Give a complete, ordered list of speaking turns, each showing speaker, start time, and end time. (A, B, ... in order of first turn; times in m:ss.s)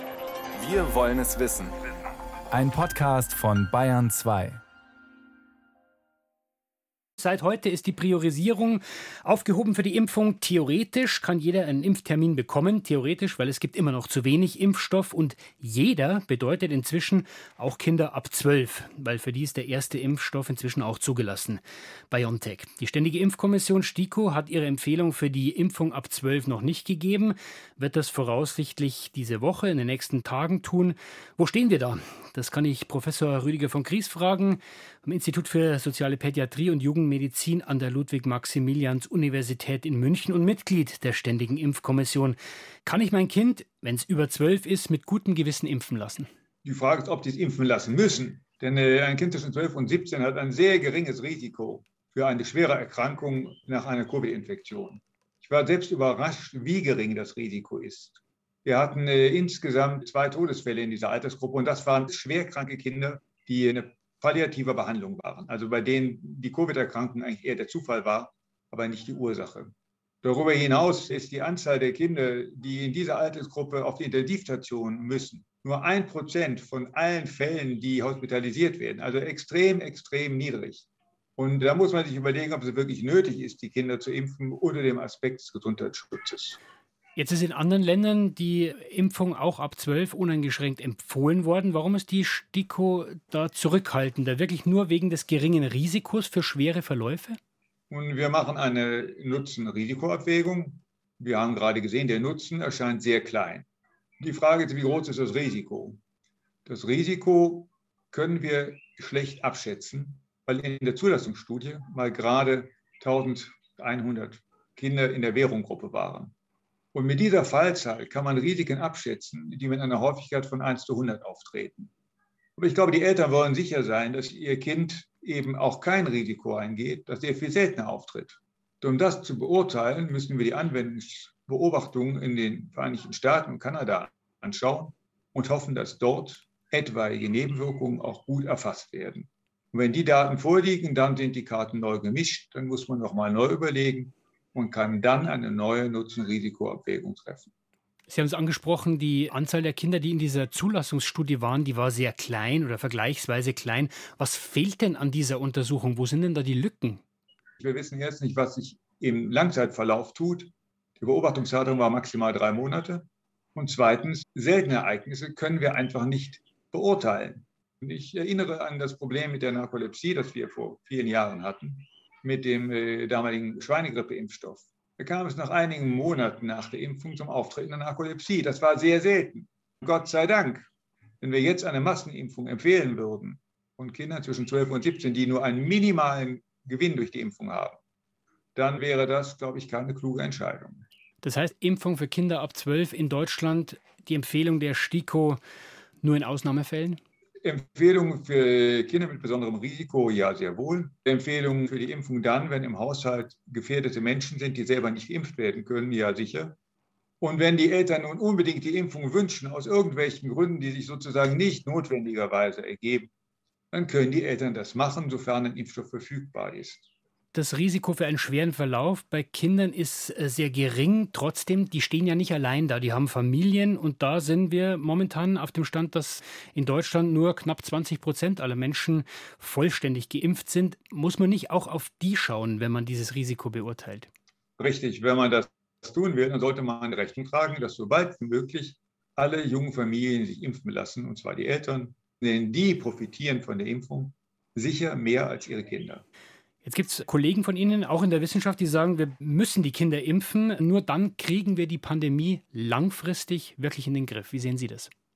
0:00.6-0:01.8 A
0:02.5-0:04.6 A
0:07.2-0:46.3 B
0:46.6-1:20.9 C
1:21.4-1:26.6 C
1:27.2-1:37.4 B
1:37.9-1:43.7 C
1:44.2-1:46.0 C
1:46.7-1:56.3 C
1:56.9-2:01.9 C
2:02.6-2:27.5 C
2:28.1-2:37.0 B
2:37.6-3:00.7 C
3:01.2-3:07.8 C
3:08.6-3:10.8 C
3:11.2-3:15.4 B
3:16.0-3:17.0 B
3:17.4-3:26.6 C
3:27.2-3:33.1 C
3:33.7-3:36.9 C
3:37.3-3:54.1 B
3:54.6-4:06.0 C
4:06.6-4:14.9 B